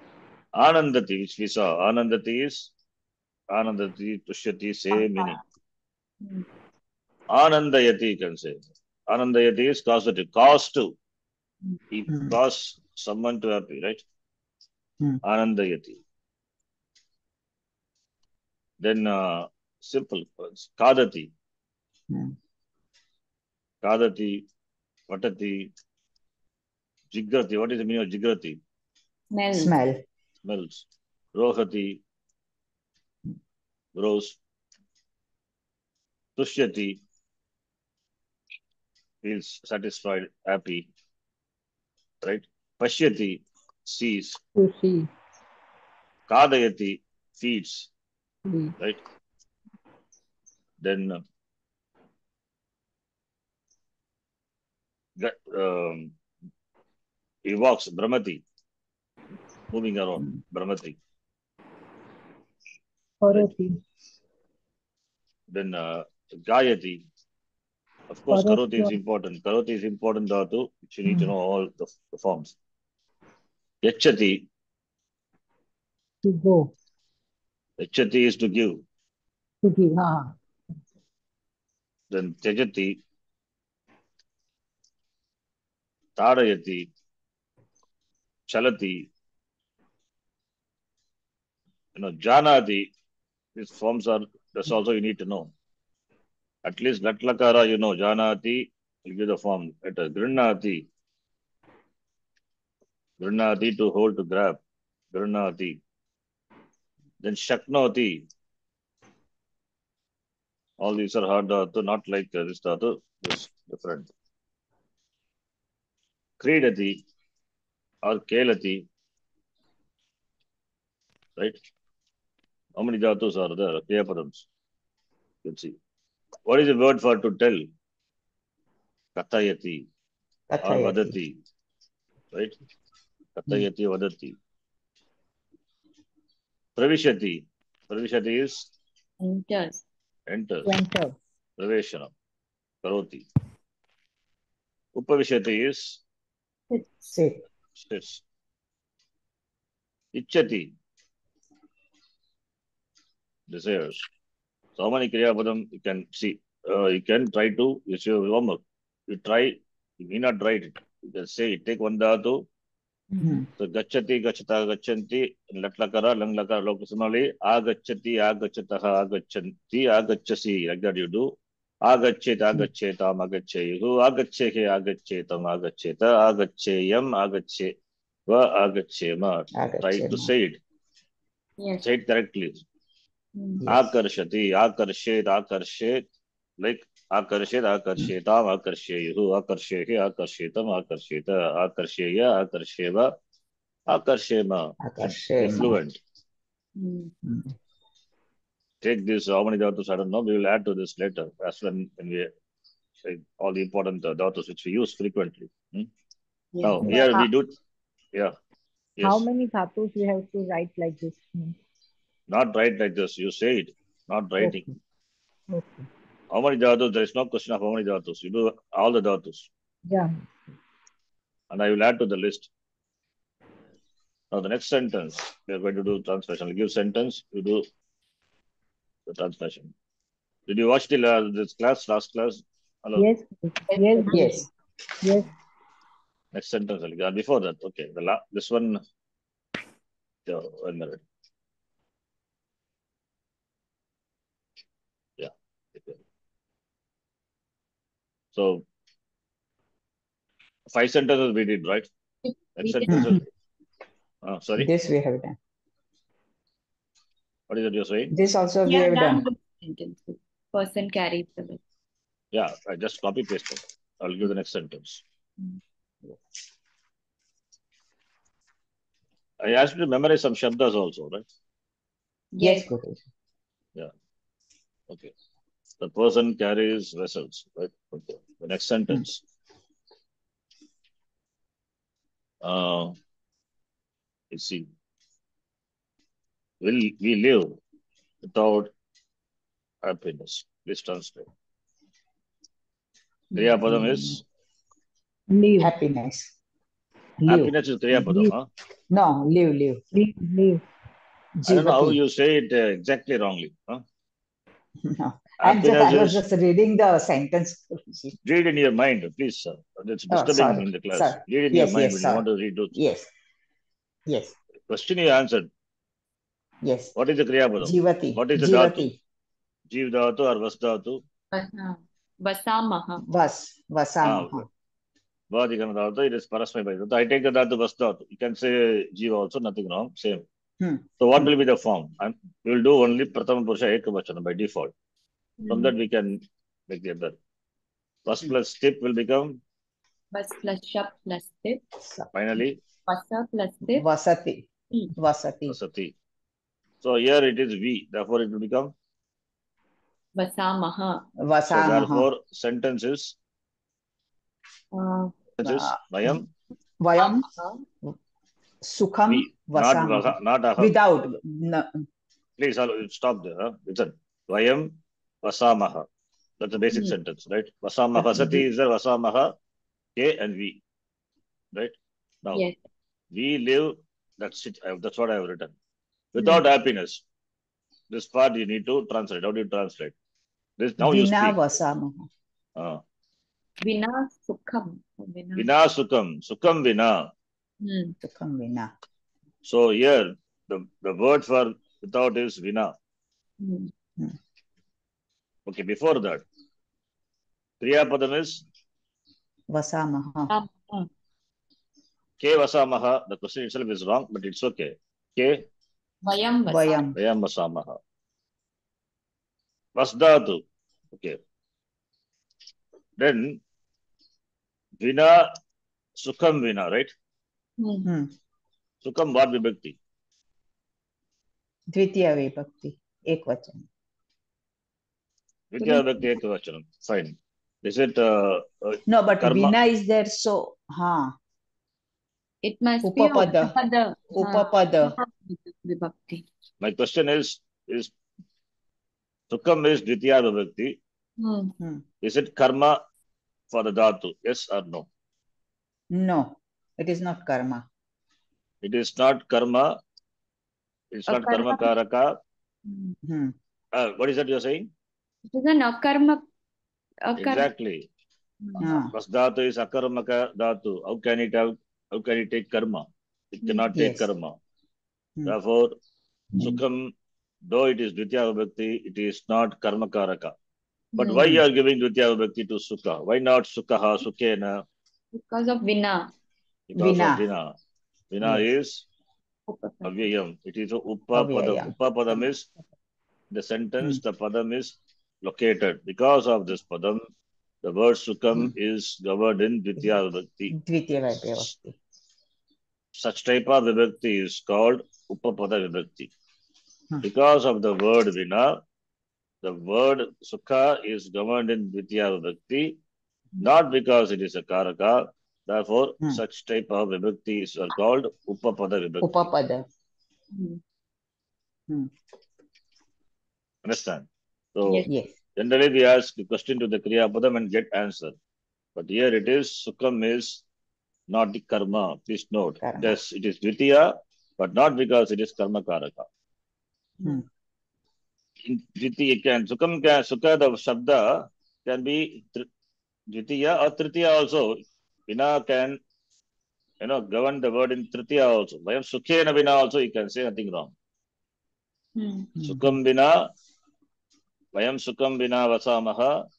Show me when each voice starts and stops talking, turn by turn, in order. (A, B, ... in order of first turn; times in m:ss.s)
0:00.6-0:02.7 A
0:03.5-0:05.4 A
0:04.9-0:05.4 B
0:07.3-0:11.0 A
0:11.9-0:14.0 A
0:12.1-0:12.4 C
0:15.2-0:16.0 A
0:18.8-0:21.3 A
0:22.1-0:22.4 C
0:23.8-0:24.4 A
0:25.1-0:25.7 A
0:27.1-0:28.6 A
0:29.3-0:29.7 B
0:29.5-0:30.0 C
0:30.4-0:32.0 A
0:34.0-0:34.4 A
0:36.4-0:37.0 A
0:39.2-0:40.9 A
0:42.2-0:44.4 A
0:44.6-0:45.1 D
0:46.3-0:47.9 A
0:48.5-0:48.8 D
0:50.8-0:51.2 A
0:55.2-0:56.1 A
0:57.5-0:58.4 A
0:59.7-1:01.0 A
1:03.2-1:03.8 D
1:05.5-1:07.0 A
1:08.1-1:12.6 A
1:08.3-1:09.0 D
1:13.8-1:14.4 A
1:16.2-1:16.7 D
1:17.8-1:18.8 A
1:19.6-1:20.4 D
1:22.1-1:23.0 A
1:26.2-1:26.9 A
1:28.5-1:29.1 A
1:32.0-1:32.9 A
1:33.6-1:35.5 A
1:36.6-1:40.9 A
1:43.2-1:44.6 A
1:45.1-1:45.8 A
1:47.2-1:48.2 A
1:50.8-1:54.1 A
1:56.4-1:57.0 A
1:58.0-1:58.8 A
2:02.8-2:04.5 A
2:05.4-2:05.8 A
2:06.5-2:07.7 A
2:09.2-2:09.9 A
2:10.5-2:11.2 C
2:10.6-2:11.4 A
2:13.4-2:14.4 A
2:16.8-2:18.7 A
2:19.2-2:19.8 B
2:20.3-2:20.7 A
2:20.6-2:21.2 D
2:21.6-2:22.1 A
2:22.8-2:23.2 A
2:25.0-2:26.0 A
2:26.7-2:27.1 B
2:27.1-2:27.4 C
2:27.8-2:28.2 A
2:30.1-2:30.7 A
2:33.5-2:34.0 A
2:34.8-2:42.4 A
2:43.2-2:43.5 C
2:43.6-2:51.3 A
2:51.8-2:57.7 A
2:58.3-3:00.6 A
2:59.6-3:00.3 C
3:01.6-3:01.9 B
3:01.8-3:02.6 A
3:03.4-3:03.6 B
3:03.6-3:03.9 C
3:03.7-3:06.0 A
3:06.6-3:13.1 A
3:13.9-3:16.0 A
3:14.8-3:15.8 C
3:16.8-3:17.1 B
3:17.2-3:17.5 C
3:18.8-3:22.3 A
3:23.0-3:25.9 A
3:26.5-3:27.3 B
3:26.6-3:27.6 A
3:29.0-3:29.2 A
3:29.0-3:31.6 D
3:32.3-3:34.7 A
3:35.5-3:35.9 D
3:36.3-3:39.5 A
3:39.9-3:40.2 D
3:41.5-3:42.5 A
3:44.3-3:47.7 A
3:49.1-3:49.7 A
3:50.5-3:53.1 A
3:53.0-3:54.3 D
3:53.7-3:54.5 B
3:54.1-3:54.5 C
3:55.0-3:55.3 D
3:56.3-3:58.8 A
4:00.3-4:01.0 A
4:05.2-4:06.0 A
4:08.3-4:08.6 A
4:10.7-4:11.9 A
4:12.2-4:13.1 B
4:12.6-4:13.2 A
4:12.9-4:13.2 C
4:14.2-4:14.7 A
4:14.6-4:15.4 C
4:17.5-4:18.1 A
4:18.1-4:19.2 C
4:18.7-4:21.6 B
4:22.3-4:25.0 A
4:29.4-4:31.3 A
4:32.3-4:32.7 B
4:32.4-4:33.0 C
4:35.8-4:39.2 A
4:42.4-4:43.0 A
4:44.3-4:44.7 A
4:46.6-4:47.6 A
4:48.2-4:48.7 A
4:49.8-4:51.3 A
4:53.4-4:53.6 B
4:53.4-4:54.2 A
4:53.7-4:54.2 C
4:55.3-4:55.7 D
4:55.6-4:56.3 C
4:57.2-4:57.5 C
4:57.3-4:58.4 A
4:58.9-4:59.8 C
4:59.9-5:00.6 D
5:01.4-5:02.0 C
5:01.5-5:03.8 A
5:04.8-5:08.2 C
5:05.4-5:06.2 A
5:08.2-5:12.8 A
5:10.1-5:12.2 C
5:12.7-5:13.1 C
5:14.1-5:14.4 C
5:14.7-5:15.5 A
5:16.6-5:16.9 C
5:17.0-5:18.9 A
5:17.6-5:19.0 C
5:19.7-5:21.0 A
5:21.3-5:23.0 B
5:23.0-5:24.5 C
5:24.0-5:24.5 A
5:25.3-5:30.2 A
5:30.6-5:31.3 C
5:31.0-5:34.7 A
5:35.4-5:35.8 B
5:35.5-5:37.2 A
5:38.0-5:39.4 A
5:40.1-5:41.6 B
5:42.1-5:42.6 A
5:42.9-5:43.9 B
5:43.7-5:44.4 C
5:45.0-5:45.6 C
5:45.5-5:45.9 A
5:46.8-5:48.7 A
5:50.2-5:51.0 B
5:51.2-5:52.1 C
5:51.5-5:53.2 A
5:54.7-5:55.4 B
5:55.4-5:56.3 A
5:55.4-5:56.2 C
5:56.8-5:57.3 C
5:57.0-5:57.6 B
5:58.6-6:01.9 C
5:59.1-6:00.7 A
6:02.4-6:05.9 A
6:06.4-6:09.3 A
6:08.0-6:08.4 C
6:10.0-6:10.6 A
6:11.5-6:12.5 A
6:13.1-6:15.6 A
6:16.1-6:17.0 A
6:17.9-6:19.9 A
6:20.6-6:21.4 A
6:20.8-6:22.1 C
6:23.6-6:25.5 B
6:25.4-6:27.1 A
6:27.6-6:28.0 B
6:28.0-6:28.7 C
6:29.4-6:32.7 A
6:33.4-6:33.7 B
6:35.5-6:36.2 A
6:37.6-6:38.4 A
6:39.5-6:40.3 C
6:40.3-6:40.9 B
6:42.2-6:45.4 A
6:46.0-6:46.9 B
6:46.5-6:47.0 C
6:47.0-6:47.8 A
6:49.8-6:50.4 A
6:50.9-6:51.2 A
6:53.0-6:53.4 A
6:54.8-6:55.3 A
6:56.0-6:56.9 A
6:57.6-6:57.9 B
6:57.8-6:58.1 C
6:58.8-6:59.8 A
7:01.7-7:03.7 C
7:05.5-7:09.5 A
7:05.6-7:06.2 B
7:08.9-7:11.2 C
7:12.4-7:16.2 B
7:12.8-7:13.5 C
7:14.1-7:15.0 C
7:16.6-7:17.9 A
7:19.3-7:20.8 A
7:21.2-7:21.6 B
7:22.0-7:22.8 A
7:23.5-7:24.9 A
7:25.9-7:27.6 C
7:28.6-7:29.7 A
7:30.9-7:32.2 A
7:31.1-7:31.7 B
7:32.7-7:33.0 B
7:33.1-7:33.4 C
7:33.7-7:34.7 A
7:35.3-7:36.2 B
7:37.0-7:37.5 B
7:37.2-7:37.8 A
7:38.4-7:38.8 B
7:38.6-7:38.9 C
7:38.6-7:44.4 A
7:43.4-7:43.7 B
7:43.7-7:44.1 C
7:45.2-7:45.8 A
7:46.3-7:46.6 C
7:46.4-7:46.9 A
7:47.5-7:50.3 A
7:51.0-7:51.4 B
7:51.0-7:54.6 A
7:55.1-7:56.1 B
7:56.7-7:57.5 A
7:56.8-7:57.2 C
7:58.1-7:58.8 A
7:59.5-8:00.0 B
7:59.8-8:02.5 A
8:01.1-8:02.2 C
8:03.3-8:07.0 A
8:07.6-8:10.6 A
8:10.5-8:11.8 C
8:13.0-8:16.1 A
8:17.0-8:18.6 A
8:19.4-8:22.7 A
8:23.4-8:29.1 A
8:29.0-8:29.7 C
8:30.3-8:30.6 B
8:33.6-8:38.2 A
8:34.9-8:35.1 C
8:38.8-8:40.4 A
8:41.1-8:46.1 A
8:42.6-8:43.0 C
8:48.4-8:52.5 A
8:53.1-8:55.8 A
8:56.8-9:00.7 A
9:02.0-9:02.3 B
9:02.4-9:02.8 C
9:02.4-9:03.3 A
9:04.6-9:06.1 A